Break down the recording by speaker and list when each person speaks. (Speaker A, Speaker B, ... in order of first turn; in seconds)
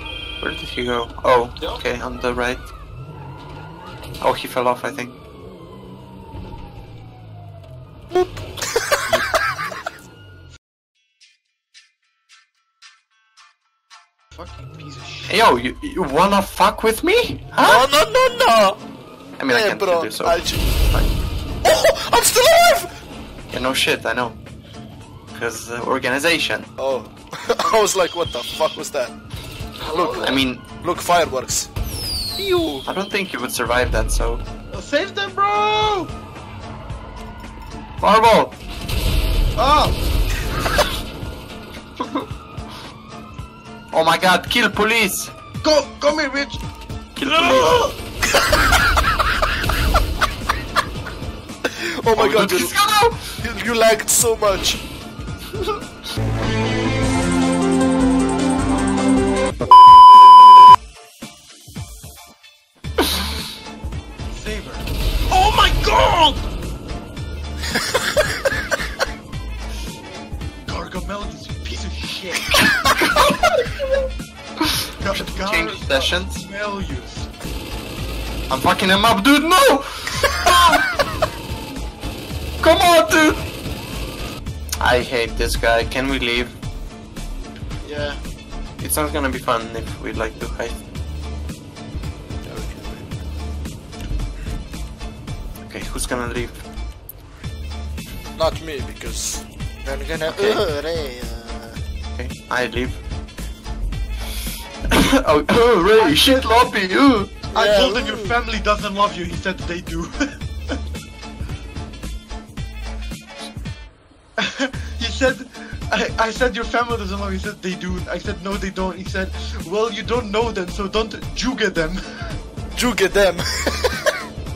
Speaker A: 0.4-2.6, 4.2-5.2, 15.3-17.9, 19.4-21.1, 23.5-24.4, 25.3-26.7, 30.1-30.6, 32.8-34.4, 38.0-38.5, 43.9-45.3, 47.1-47.9, 52.1-53.4, 72.7-73.5, 75.1-76.4, 78.5-81.0, 82.6-83.4, 84.8-86.6, 88.8-90.8, 95.6-96.6, 100.2-100.6, 102.2-103.0, 104.9-107.4
Speaker B: 8.1-9.2, 17.6-18.8, 19.5-20.6, 21.6-22.9, 26.8-29.1, 29.8-31.7, 51.6-52.7, 53.4-54.8, 92.4-93.2, 98.3-101.8, 107.5-108.3, 122.7-124.2
Speaker C: 14.3-15.4, 32.4-32.8, 34.7-36.1, 39.5-40.0, 45.6-46.6, 47.2-47.9, 64.2-66.4, 70.6-72.5, 75.0-77.3, 87.8-88.2, 105.9-106.6, 107.5-110.4, 114.4-122.4